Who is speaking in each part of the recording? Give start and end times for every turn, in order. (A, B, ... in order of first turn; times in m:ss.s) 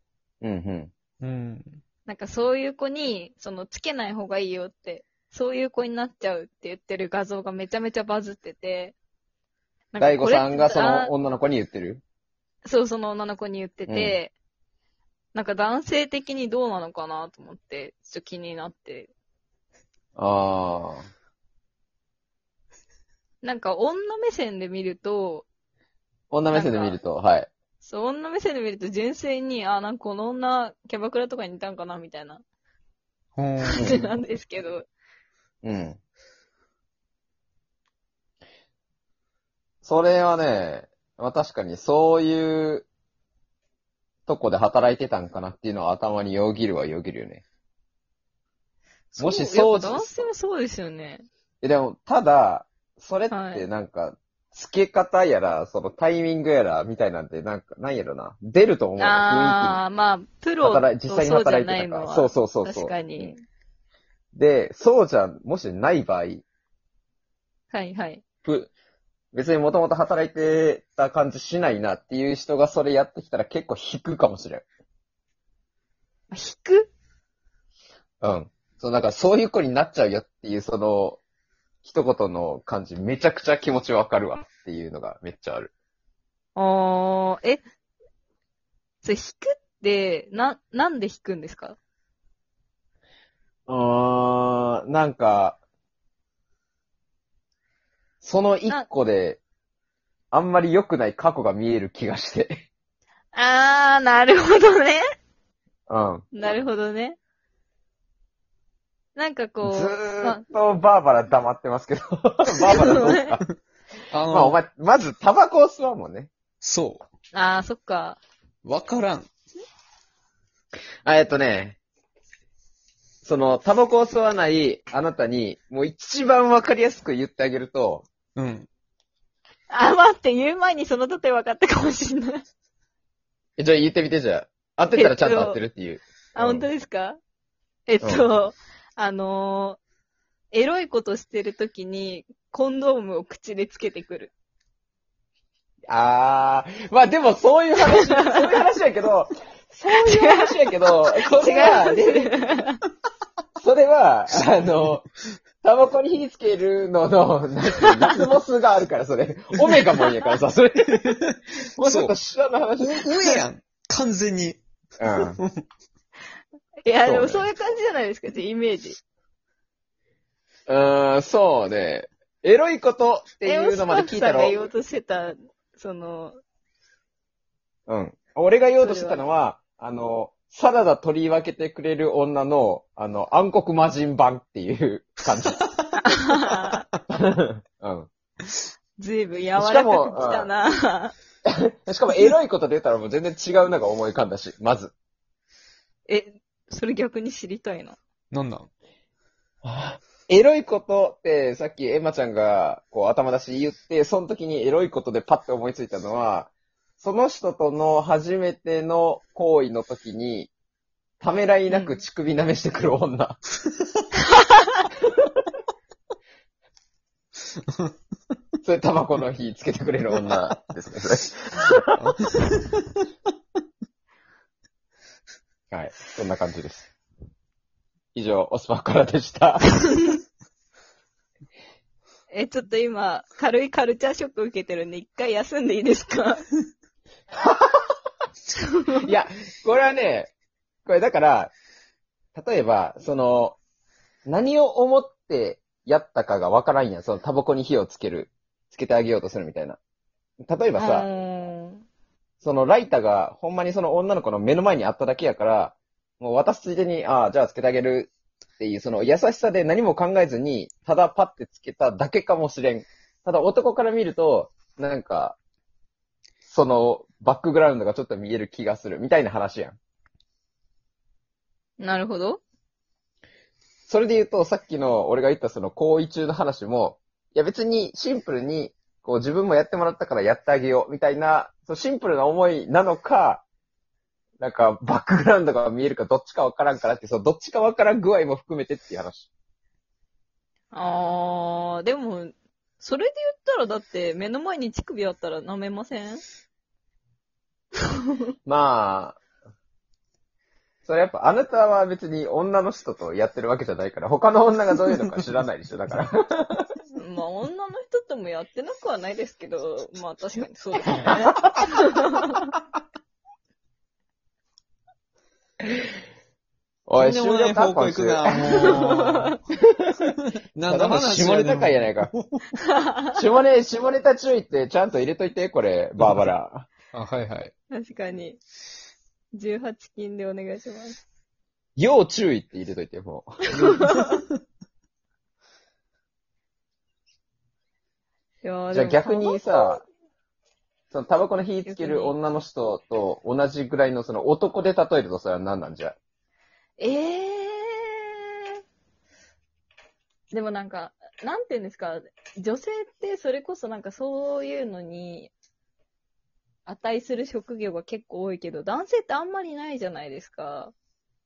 0:00.4-0:00.9 A
0:01.2-0:01.8 B
0:02.1-0:09.0 C
0:09.9-0:11.1 C
0:10.0-0:12.0 A
0:12.6-0:14.3 C
0:13.9-0:14.2 A
0:15.3-0:19.1 C
0:20.2-0:21.1 A
0:23.4-0:25.5 C
0:26.3-0:27.5 A
0:26.5-0:27.0 C
0:27.8-0:32.4 C
0:33.4-0:33.9 B
0:33.6-0:34.9 C
0:35.6-0:36.0 A
0:39.8-0:42.9 A
0:44.3-0:47.4 A
0:49.1-0:51.3 C
0:49.2-0:50.2 A
0:51.6-0:59.8 A
0:53.3-0:53.7 C
0:59.0-1:03.4 C
1:00.6-1:03.4 A
1:04.3-1:06.4 A
1:07.7-1:08.2 C
1:08.4-1:08.7 A
1:09.3-1:14.6 A
1:16.3-1:16.9 C
1:18.2-1:21.2 A
1:21.8-1:25.7 A
1:26.6-1:27.6 C
1:29.0-1:31.8 C
1:33.7-1:35.6 A
1:38.2-1:39.4 A
1:40.3-1:42.6 A
1:43.3-1:45.0 C
1:45.9-1:46.2 A
1:46.3-1:47.2 C
1:49.2-1:50.4 C
1:49.6-1:53.4 A
1:52.6-1:53.3 C
1:54.1-1:54.6 B
1:54.3-1:56.3 A
1:56.6-1:57.1 B
1:57.3-1:58.2 C
1:58.6-1:59.3 B
2:01.0-2:01.8 A
2:03.2-2:08.1 A
2:08.4-2:08.7 B
2:09.7-2:12.4 C
2:13.6-2:16.7 A
2:14.9-2:15.6 C
2:16.4-2:17.2 C
2:17.9-2:19.8 C
2:18.0-2:18.3 A
2:20.5-2:24.3 C
2:25.9-2:32.3 A
2:27.9-2:28.4 C
2:29.9-2:30.6 C
2:31.2-2:32.8 C
2:33.6-2:35.1 A
2:35.6-2:41.2 A
2:37.8-2:38.2 C
2:41.0-2:42.1 B
2:41.8-2:43.4 A
2:42.8-2:44.6 B
2:45.0-2:45.4 A
2:45.2-2:45.6 B
2:46.9-2:49.0 C
2:47.0-2:47.5 A
2:50.7-2:54.6 A
2:53.4-2:56.4 C
2:57.9-3:05.7 A
2:58.8-2:59.2 C
3:05.6-3:06.7 B
3:06.0-3:06.8 C
3:07.1-3:08.1 A
3:09.0-3:11.1 C
3:09.6-3:10.5 A
3:11.5-3:14.9 A
3:16.1-3:18.0 C
3:18.3-3:18.7 B
3:19.6-3:30.5 A
3:31.2-3:33.4 A
3:38.6-3:42.0 A
3:42.0-3:43.0 B
3:45.7-3:46.9 A
3:48.1-3:49.8 A
3:52.3-3:56.5 C
3:57.3-3:57.9 A
3:58.6-3:59.0 C
3:58.9-4:00.3 A
4:00.9-4:01.5 A
4:02.3-4:03.6 A
4:04.3-4:09.8 A
4:10.5-4:11.1 A
4:10.8-4:11.8 C
4:12.4-4:25.4 A
4:26.4-4:29.8 A
4:31.8-4:32.4 C
4:33.9-4:43.4 A
4:44.4-4:49.3 A
4:50.7-4:56.2 C
4:58.5-4:59.2 A
5:00.8-5:06.7 A
5:07.0-5:12.5 C
5:11.1-5:11.5 A
5:16.9-5:18.8 A
5:17.0-5:19.4 B
5:18.4-5:19.4 C
5:19.5-5:20.1 A
5:20.2-5:22.6 B
5:20.7-5:22.1 A
5:22.6-5:23.2 C
5:23.2-5:26.7 A
5:26.0-5:26.3 B
5:26.9-5:27.5 B
5:27.7-5:28.4 C
5:29.3-5:31.0 C
5:31.8-5:33.4 A
5:33.5-5:34.4 B
5:33.6-5:34.2 C
5:38.4-5:39.8 C
5:38.7-5:39.8 A
5:40.9-5:46.0 A
5:41.7-5:42.2 C
5:46.8-5:48.2 C
5:50.3-5:55.3 C
5:56.7-6:00.7 C